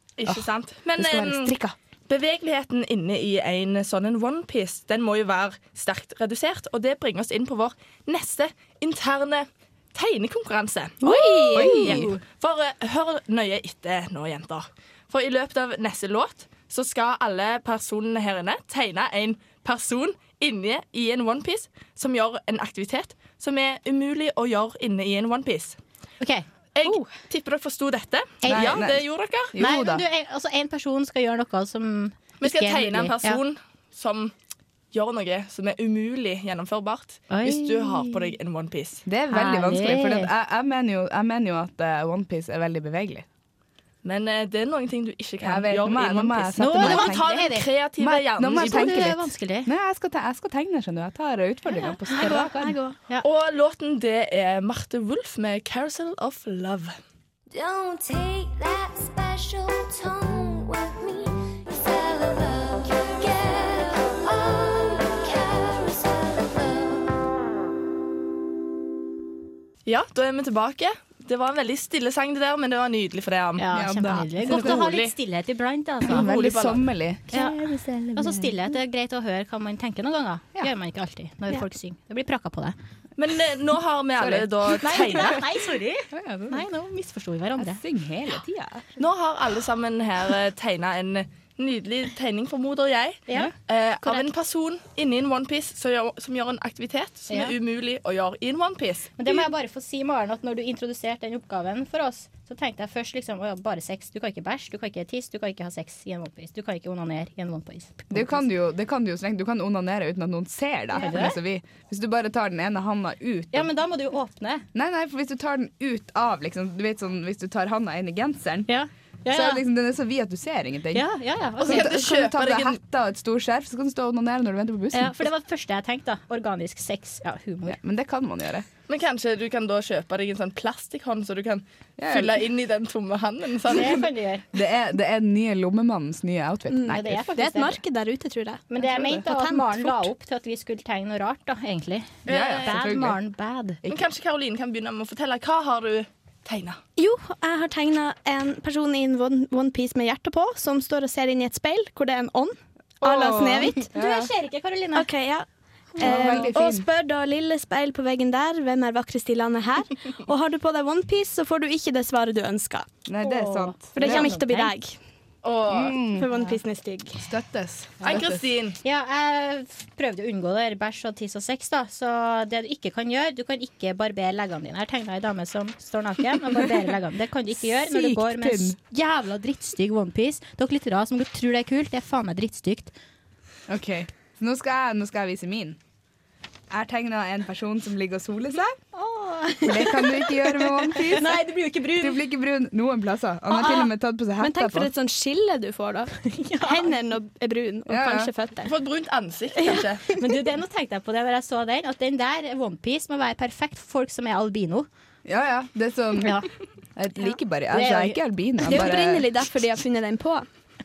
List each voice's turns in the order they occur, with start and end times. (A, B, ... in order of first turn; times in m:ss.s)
0:00.2-0:01.6 A
0:01.0-0:01.7 B
0:02.1-0:25.8 A
0:11.0-0:12.0 C
0:11.0-0:12.2 D
0:11.5-0:12.1 B
0:26.2-0:27.0 D
0:26.8-0:29.5 A
0:28.4-0:28.8 D
0:28.5-0:29.0 B
0:29.5-0:30.0 B
0:29.6-0:33.4 D
0:32.4-0:34.3 A
0:34.9-0:39.0 A
0:37.3-0:38.3 D
0:39.0-0:43.2 B
0:39.3-0:40.3 D
0:44.0-0:49.0 A
0:45.4-0:47.4 B
0:46.6-0:47.7 D
0:48.0-0:52.8 B
0:48.4-0:49.7 D
0:52.1-0:53.0 C
0:52.2-0:52.5 D
0:53.2-0:56.9 A
0:57.5-1:07.2 E
1:09.8-1:13.6 A
1:13.6-1:16.3 D
1:13.7-1:14.8 B
1:14.4-1:15.1 A
1:16.0-1:18.5 B
1:16.1-1:16.9 A
1:17.3-1:17.6 D
1:18.1-1:22.8 D
1:23.2-1:25.4 A
1:24.2-1:25.2 B
1:24.8-1:27.8 D
1:26.1-1:26.6 B
1:27.6-1:28.9 B
1:29.0-1:39.4 A
1:39.2-1:48.4 D
1:48.1-1:53.7 B
1:50.9-1:51.4 D
1:53.5-1:54.7 D
1:54.7-1:58.7 B
1:58.7-1:59.6 D
1:59.3-2:01.0 B
2:00.9-2:01.9 D
2:01.6-2:05.3 B
2:01.6-2:02.8 A
2:04.9-2:07.8 D
2:07.6-2:08.6 B
2:08.9-2:14.1 A
2:12.0-2:12.4 B
2:13.7-2:14.4 D
2:14.5-2:17.2 B
2:16.7-2:20.1 C
2:16.9-2:17.8 D
2:18.7-2:23.8 D
2:18.9-2:19.2 B
2:22.2-2:22.7 A
2:22.3-2:23.2 B
2:23.9-2:26.8 A
2:27.0-2:33.9 C
2:33.0-2:34.3 B
2:33.9-2:35.1 D
2:34.9-2:35.4 C
2:36.0-2:42.9 C
2:36.0-2:36.9 B
2:36.0-2:36.5 D
2:43.0-2:44.3 B
2:43.2-2:44.7 D
2:43.9-2:45.0 C
2:45.4-2:46.0 A
2:45.7-2:46.3 B
2:46.1-2:47.2 C
2:47.2-2:48.4 B
2:48.0-2:48.8 A
2:48.8-3:02.9 D
2:57.6-2:58.8 B
3:03.7-3:05.8 B
3:06.7-3:08.8 B
3:08.9-3:11.0 C
3:09.6-3:11.4 B
3:11.1-3:12.2 D
3:11.9-3:14.9 B
3:13.5-3:18.7 C
3:16.3-3:16.9 D
3:17.9-3:18.3 B
3:18.6-3:20.0 A
3:20.2-3:24.9 D
3:25.2-3:26.4 B
3:26.2-3:26.5 D
3:27.0-3:29.3 B
3:27.7-3:28.2 D
3:28.6-3:30.4 C